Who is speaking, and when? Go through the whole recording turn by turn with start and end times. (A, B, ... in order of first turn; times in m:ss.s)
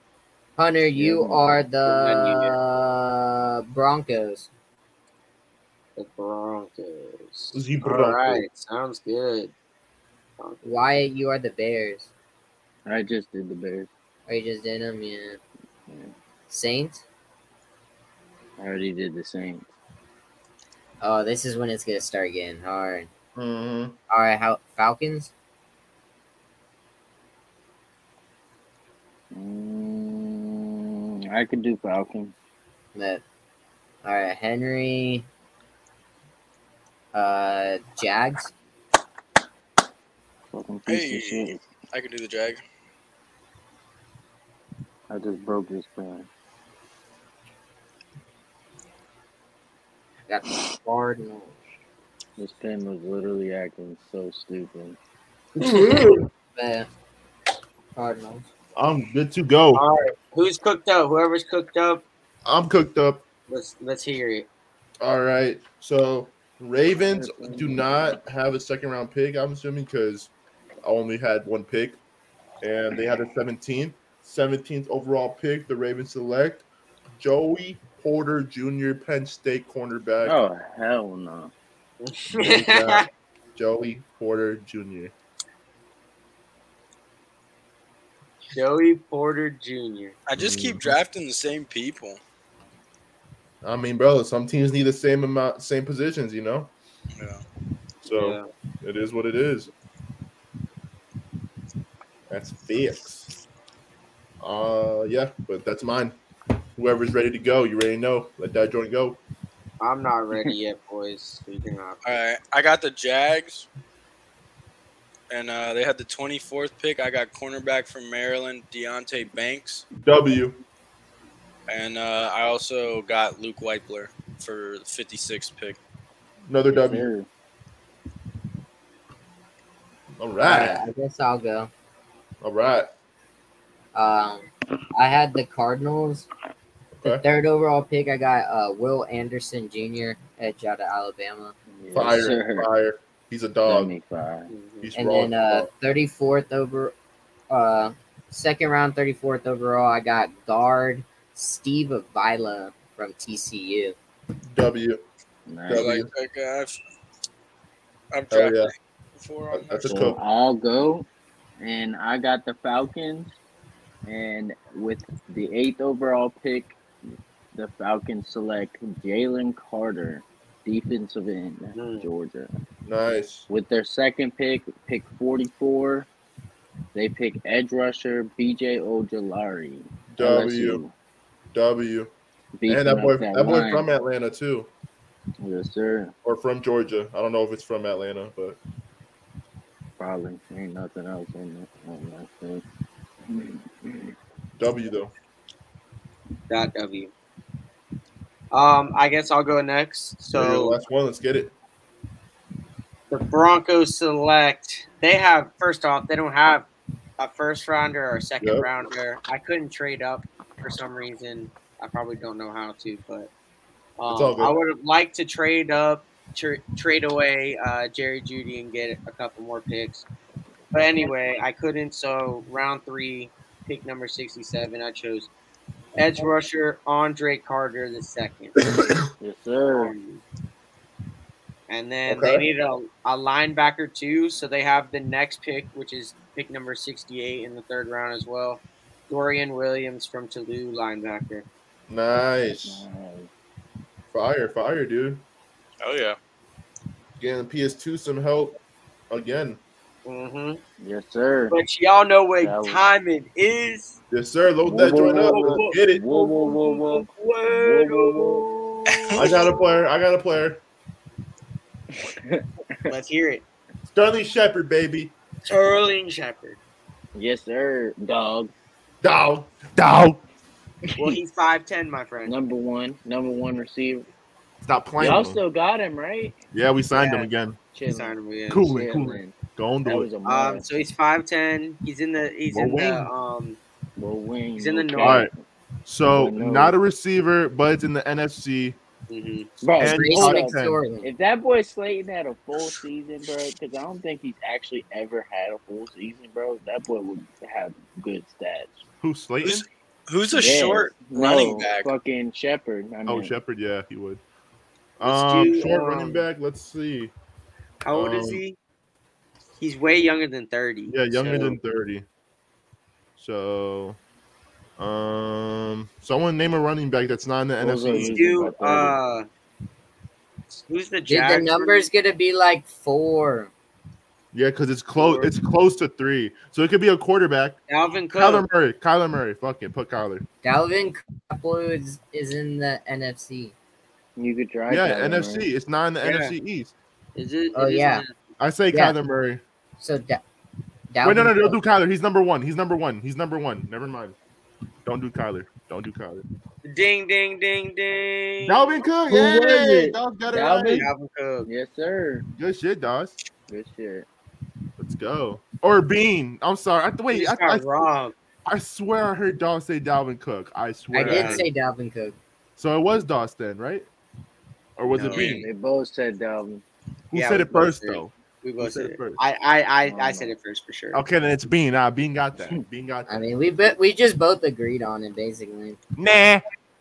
0:00.6-0:04.5 A
0:00.9-0:01.7 B
0:01.9-0:02.6 C
0:06.0-0:09.5 C
0:07.5-0:08.4 D
0:10.4-0:10.8 C
0:10.6-0:12.1 A
0:12.8-0:13.9 B
0:14.3-0:15.4 A
0:16.5-0:17.0 A
0:18.6-0:19.7 B
0:21.0-0:23.1 A
0:23.4-0:23.9 D
0:24.1-0:25.3 A
0:29.3-0:32.3 B
0:32.9-0:33.2 A
0:34.0-0:35.2 A
0:37.1-0:38.5 A
0:40.5-0:41.6 B
0:40.9-0:42.6 E
0:45.1-0:46.3 B
0:50.3-0:51.5 A
0:52.4-0:55.0 B
0:55.6-0:56.3 D
0:55.7-0:56.1 C
0:56.6-0:56.9 A
0:57.9-0:58.4 A
0:58.8-0:59.8 D
0:59.7-1:02.0 C
1:02.4-1:03.2 D
1:03.5-1:04.5 C
1:05.0-1:10.3 D
1:07.1-1:08.0 B
1:10.8-1:12.0 D
1:12.6-1:16.6 D
1:17.2-1:20.4 D
1:20.2-1:21.5 B
1:22.0-1:23.1 C
1:22.4-1:25.1 D
1:28.5-1:30.2 C
1:30.3-1:32.2 E
1:30.4-1:31.0 D
1:33.6-1:36.7 D
1:37.1-1:37.4 E
1:38.0-1:39.7 D
1:38.1-1:38.5 C
1:42.3-1:43.3 D
1:44.4-1:46.2 D
1:46.8-1:49.2 D
1:49.8-1:52.0 C
1:52.0-1:53.7 E
1:55.3-1:59.8 E
1:59.9-2:00.6 D
2:01.7-2:05.8 E
2:06.5-2:07.1 D
2:06.7-2:07.3 B
2:10.2-2:10.8 D
2:10.4-2:11.7 A
2:12.4-2:12.9 D
2:13.9-2:16.3 A
2:17.0-2:17.2 D
2:17.0-2:21.5 A
2:21.7-2:22.7 B
2:21.9-2:23.9 D
2:23.6-2:24.5 B
2:24.5-2:24.9 C
2:24.8-2:25.7 D
2:25.0-2:26.9 A
2:27.5-2:34.0 A
2:34.5-2:35.0 D
2:35.5-2:36.0 B
2:35.7-2:36.1 D
2:35.7-2:36.8 E
2:38.1-2:39.8 E
2:38.3-2:38.7 D
2:39.5-2:40.2 D
2:39.8-2:41.1 B
2:41.6-2:43.3 B
2:44.0-2:46.8 B
2:47.5-2:52.5 B
2:51.7-2:52.0 C
2:52.8-2:53.4 D
2:53.5-2:56.1 B
2:56.9-3:00.9 B
3:00.2-3:00.8 D
3:01.5-3:02.1 D
3:02.6-3:03.9 B
3:02.7-3:04.7 D
3:05.4-3:06.1 B
3:06.2-3:08.6 D
3:10.0-3:12.6 B
3:13.3-3:14.1 B
3:14.6-3:15.1 D
3:16.5-3:17.1 C
3:18.5-3:20.8 C
3:20.3-3:21.5 D
3:23.1-3:26.6 C
3:27.2-3:33.3 C
3:28.4-3:28.7 D
3:34.0-3:40.0 C
3:34.1-3:34.6 D
3:40.7-3:45.3 C
3:40.8-3:41.1 B
3:46.0-3:48.6 C
3:48.6-3:49.0 D
3:49.2-3:49.9 B
3:49.7-3:50.2 C
3:51.7-4:01.4 C
3:52.0-3:52.4 D
4:01.9-4:02.8 D
4:02.5-4:03.3 B
4:04.1-4:05.2 D
4:05.8-4:06.2 E
4:07.2-4:08.6 D
4:09.1-4:09.6 D
4:10.0-4:10.6 C
4:10.8-4:11.6 B
4:11.5-4:14.0 C
4:12.4-4:12.8 B
4:14.1-4:16.0 D
4:14.6-4:18.6 B
4:15.0-4:19.8 C
4:18.9-4:19.3 E
4:19.1-4:20.6 D
4:21.9-4:22.9 B
4:22.9-4:23.4 C
4:23.9-4:25.1 D
4:25.4-4:26.6 C
4:27.1-4:28.5 B
4:29.0-4:30.2 D
4:30.8-4:31.2 B
4:31.0-4:32.3 C
4:32.2-4:34.0 B
4:34.6-4:35.4 D
4:35.0-4:36.4 B
4:36.5-4:37.6 D
4:36.9-4:37.3 C
4:37.7-4:40.6 B
4:37.9-4:38.7 C
4:38.5-4:40.1 D
4:40.2-4:43.6 C
4:42.5-4:43.1 D
4:44.0-4:45.4 B
4:44.6-4:45.2 C
4:45.0-4:45.3 D
4:45.9-4:48.8 D
4:46.1-4:46.7 B
4:49.1-4:49.5 C
4:49.6-4:58.8 B
4:49.8-4:50.8 D
4:49.8-4:51.1 A
4:59.0-4:59.6 D
4:59.4-5:01.9 E
5:00.3-5:03.3 B
5:03.0-5:04.2 D
5:05.0-5:07.1 D
5:05.0-5:06.2 C
5:07.8-5:08.6 C
5:07.9-5:08.4 D
5:09.6-5:11.6 C
5:10.9-5:12.0 D
5:13.2-5:14.0 D
5:14.8-5:18.2 D
5:17.6-5:19.0 B
5:18.0-5:19.3 C
5:20.5-5:21.9 C
5:21.1-5:23.5 A
5:24.3-5:27.6 D
5:25.0-5:25.3 C
5:27.7-5:28.4 C
5:28.2-5:30.2 D
5:30.4-5:33.5 A
5:34.2-5:35.5 B
5:34.7-5:36.7 D
5:36.0-5:36.3 C
5:37.2-5:38.1 C
5:37.5-5:38.0 A
5:38.4-5:39.4 D
5:39.8-5:40.2 A
5:40.9-5:41.6 A
5:41.0-5:44.2 D
5:44.8-5:46.2 D
5:46.6-5:48.9 C
5:48.4-5:50.9 D
5:49.1-5:50.9 B
5:50.8-5:51.5 C
5:51.4-5:52.2 B
5:52.4-5:53.1 D
5:53.5-5:54.1 B
5:54.8-5:57.9 D
5:57.1-5:58.1 C
5:58.4-6:01.4 D
6:00.9-6:02.2 A
6:01.0-6:01.4 C
6:02.6-6:03.9 D
6:04.8-6:05.4 D
6:04.9-6:05.4 C
6:05.1-6:06.6 B
6:07.1-6:09.2 D
6:07.1-6:11.0 C
6:09.8-6:10.3 B
6:10.9-6:13.2 D
6:13.1-6:15.8 A
6:16.0-6:16.4 D